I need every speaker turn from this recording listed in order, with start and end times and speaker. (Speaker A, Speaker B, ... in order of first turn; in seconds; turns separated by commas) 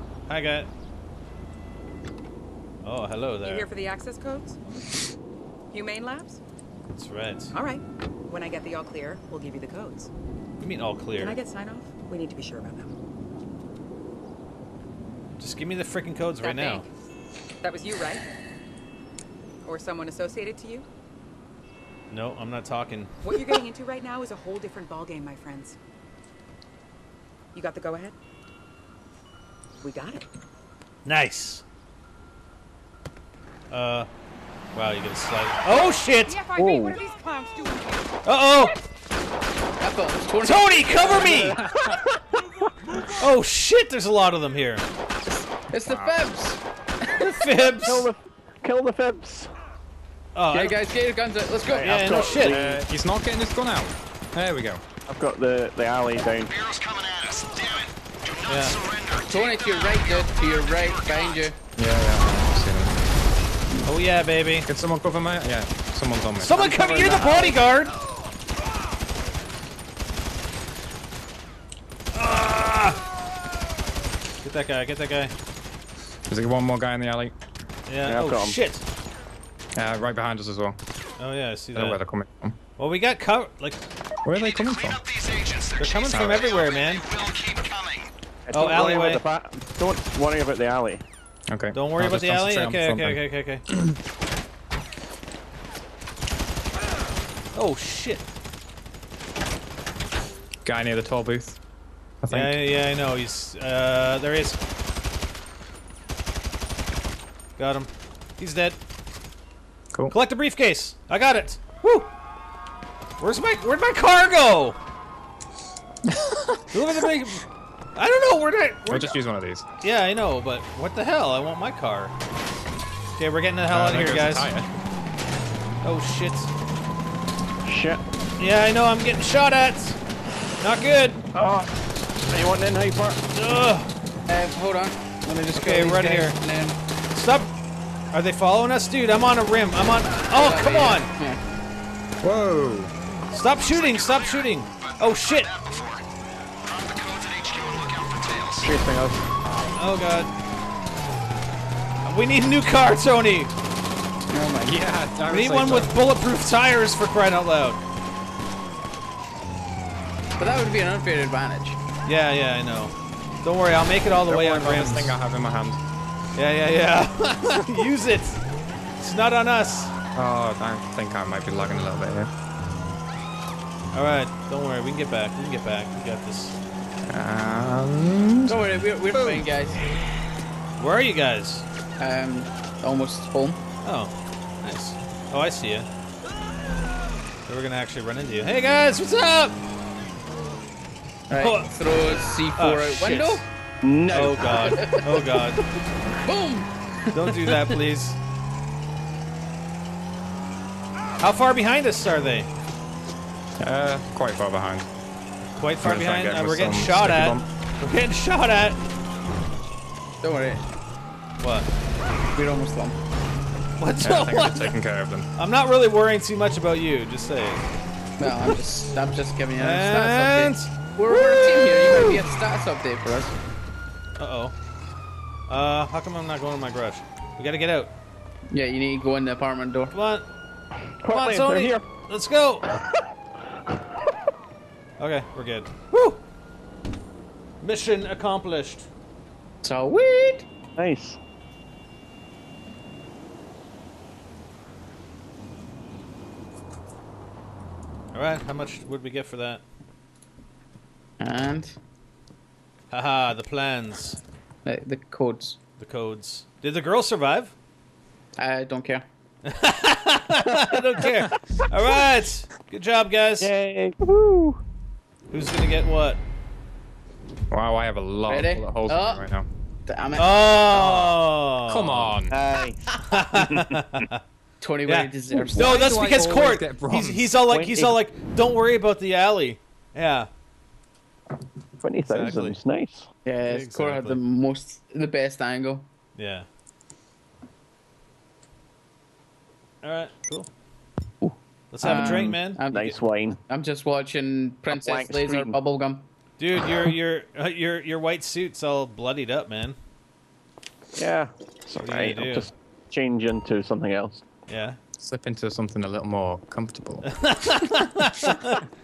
Speaker A: 0.3-0.7, Speaker A: 2.8-3.7, Speaker B: 3.4-4.6, Speaker B: 5.7-6.4, Speaker A: 6.9-7.5, Speaker B: 7.5-10.1, Speaker A: 10.6-11.4, Speaker B: 11.2-12.9, Speaker A: 15.4-16.9, Speaker B: 16.4-16.9, Speaker B: 17.6-18.2, Speaker B: 19.6-20.9, Speaker A: 22.1-23.1, Speaker B: 23.2-25.8, Speaker B: 27.5-28.1, Speaker B: 29.8-30.3, Speaker A: 31.1-31.6, Speaker A: 33.7-34.1, Speaker A: 34.7-36.5, Speaker B: 35.7-38.1, Speaker C: 36.6-37.0, Speaker A: 38.2-38.8, Speaker D: 39.8-41.6, Speaker A: 40.4-41.7, Speaker A: 43.2-44.8, Speaker D: 45.6-47.3, Speaker E: 45.9-46.2, Speaker A: 47.2-48.1, Speaker C: 47.8-49.5, Speaker A: 50.4-50.8, Speaker D: 50.5-52.5, Speaker A: 51.7-52.6, Speaker C: 51.7-52.9, Speaker E: 52.5-54.8, Speaker C: 55.1-56.5, Speaker F: 56.5-61.5, Speaker A: 58.5-58.8, Speaker D: 59.3-61.6, Speaker E: 61.8-63.0, Speaker A: 63.9-64.7, Speaker E: 64.7-66.8, Speaker A: 66.4-68.0, Speaker D: 66.6-67.6, Speaker A: 72.1-73.0, Speaker A: 74.4-75.3, Speaker E: 76.3-77.3, Speaker A: 77.9-78.8, Speaker C: 78.0-78.6, Speaker E: 79.8-80.8, Speaker A: 81.2-82.0, Speaker E: 81.7-82.6, Speaker A: 82.8-83.8, Speaker E: 84.2-85.0, Speaker F: 84.3-88.1, Speaker A: 85.8-87.0, Speaker E: 86.0-86.5, Speaker C: 88.5-91.0, Speaker A: 88.5-89.2, Speaker E: 91.5-93.2, Speaker A: 91.7-93.7, Speaker A: 97.5-98.3, Speaker E: 100.7-101.6, Speaker E: 102.2-102.6, Speaker A: 102.3-104.6, Speaker A: 107.6-108.8, Speaker A: 110.1-112.1, Speaker A: 113.2-114.8, Speaker E: 116.1-116.6, Speaker A: 116.7-119.2, Speaker E: 118.9-119.7, Speaker A: 119.8-122.1, Speaker A: 123.2-124.5, Speaker E: 123.7-124.7, Speaker A: 125.8-126.5, Speaker C: 127.7-128.0, Speaker A: 128.4-130.0, Speaker A: 130.6-131.2, Speaker C: 131.3-131.7, Speaker C: 132.3-133.2, Speaker A: 133.4-133.9, Speaker D: 134.3-136.8, Speaker A: 135.5-136.4, Speaker A: 137.1-137.5, Speaker A: 138.1-141.1, Speaker D: 140.3-141.4, Speaker E: 142.2-142.9, Speaker A: 143.3-145.5, Speaker F: 143.7-146.1, Speaker F: 146.6-148.8, Speaker C: 148.6-149.2, Speaker E: 149.5-149.8, Speaker A: 149.8-150.3, Speaker A: 152.0-153.5, Speaker D: 154.3-154.9, Speaker E: 154.6-155.9, Speaker A: 155.3-157.8, Speaker D: 160.4-161.8, Speaker A: 162.1-165.2, Speaker E: 164.3-165.8, Speaker A: 166.4-168.4, Speaker A: 169.0-169.9, Speaker E: 170.2-172.3, Speaker A: 173.9-176.6, Speaker E: 177.1-178.6, Speaker D: 178.5-179.9, Speaker A: 180.8-181.7, Speaker D: 182.0-183.6, Speaker A: 183.8-185.9, Speaker A: 187.5-189.7, Speaker D: 191.3-193.5, Speaker A: 191.4-191.7, Speaker A: 192.6-193.5, Speaker C: 193.8-194.8, Speaker A: 194.1-195.6, Speaker D: 194.5-195.2, Speaker D: 196.2-197.7, Speaker A: 197.1-198.2, Speaker A: 201.2-202.5, Speaker E: 203.6-204.9, Speaker A: 205.6-208.8, Speaker E: 205.8-207.5, Speaker D: 210.2-210.7, Speaker A: 211.4-211.7, Speaker D: 212.3-213.0, Speaker A: 213.8-214.8, Speaker E: 214.0-215.3, Speaker A: 215.4-217.6, Speaker D: 218.2-223.3, Speaker A: 219.6-222.2, Speaker A: 224.2-224.6, Speaker A: 225.5-227.9, Speaker D: 228.5-229.9, Speaker A: 229.9-230.3, Speaker C: 231.0-231.8, Speaker A: 231.1-232.8, Speaker A: 235.0-236.2, Speaker A: 237.6-238.9, Speaker D: 239.6-240.5, Speaker C: 240.8-241.2, Speaker A: 248.1-249.6, Speaker D: 251.2-251.8, Speaker A: 252.9-254.2, Speaker D: 254.7-255.6, Speaker A: 255.8-257.5, Speaker D: 258.4-259.0, Speaker A: 259.4-263.5, Speaker C: 263.4-264.6, Speaker A: 265.3-266.2, Speaker E: 267.5-269.5, Speaker D: 268.3-269.3, Speaker D: 269.9-270.3, Speaker A: 270.2-272.2, Speaker E: 271.7-272.4, Speaker C: 272.3-273.6, Speaker A: 273.1-274.2, Speaker D: 274.6-275.8, Speaker A: 274.9-280.3, Speaker E: 275.6-277.4, Speaker C: 277.5-277.9, Speaker C: 281.8-283.1, Speaker A: 282.1-282.6, Speaker D: 283.2-285.9, Speaker A: 283.4-284.2, Speaker A: 286.2-286.5, Speaker A: 289.8-290.5, Speaker D: 291.2-293.0, Speaker A: 291.7-292.9, Speaker C: 292.0-293.4, Speaker D: 293.5-296.1, Speaker C: 294.7-295.6, Speaker A: 296.4-299.8, Speaker C: 301.0-304.2, Speaker A: 301.8-302.5, Speaker A: 304.5-304.8, Speaker E: 305.0-307.1, Speaker A: 307.1-308.6